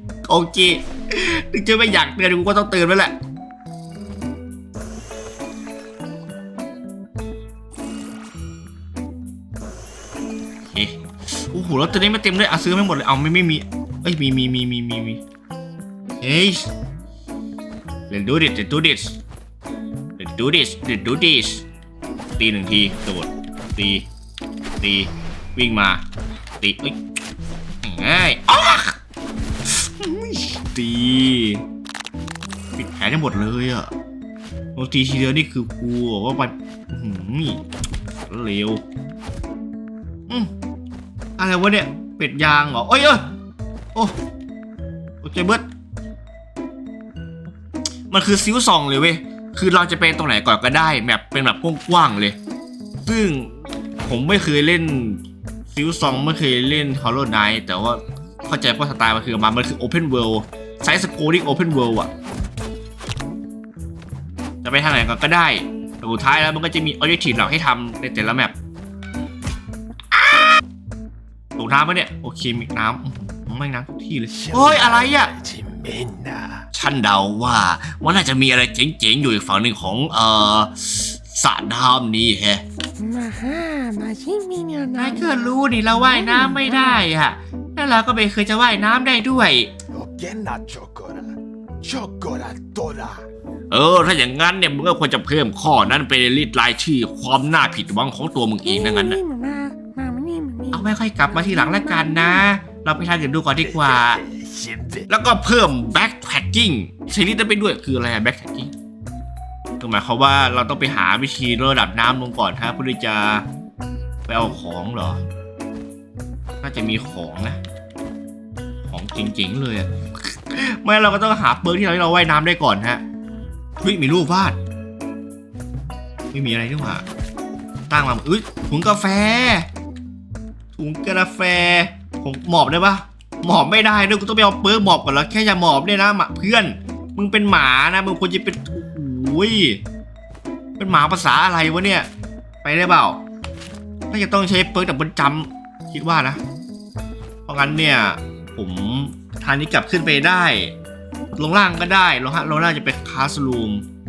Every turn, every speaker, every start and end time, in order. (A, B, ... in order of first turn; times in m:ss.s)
0:00.2-0:03.2 A
0:10.7-0:11.0 A
0:11.5-0:15.2 A
0:16.2-0:16.7 A
0:18.1-0:19.2 A
0:20.2-0:21.6 A
0:22.4-0:24.1 A
0:24.8-0:26.0 A
0:26.6-0:27.0 A
0:27.8-0:29.0 A
0:29.7-0:31.6 A
0:32.8-0:33.9 A
0:34.8-0:37.6 A
0:38.3-0:38.8 A
0:41.4-0:43.3 A
0:45.2-0:45.7 A
0:48.1-0:52.4 A
0:53.1-1:02.1 A
1:04.6-1:08.6 A
1:10.1-1:10.6 A
1:11.6-1:15.3 A
1:14.3-1:16.7 B
1:16.7-1:22.6 A
1:23.0-1:25.4 C
1:25.0-1:29.7 A
1:26.0-1:27.0 C
1:29.9-1:33.3 B
1:33.7-1:39.2 A
1:38.6-1:42.4 C
1:40.7-1:44.2 A
1:43.6-1:45.1 B
1:45.1-1:48.7 A
1:49.8-1:53.4 A
1:54.3-1:55.2 A
1:56.6-1:57.6 A
1:58.9-2:03.0 A
2:03.8-2:04.6 A
2:06.3-2:07.0 A
2:07.9-2:09.7 A
2:10.8-2:19.8 A
2:20.8-2:22.1 A
2:22.6-2:23.2 A
2:24.1-2:26.4 A
2:27.5-2:30.7 A
2:31.4-2:33.8 A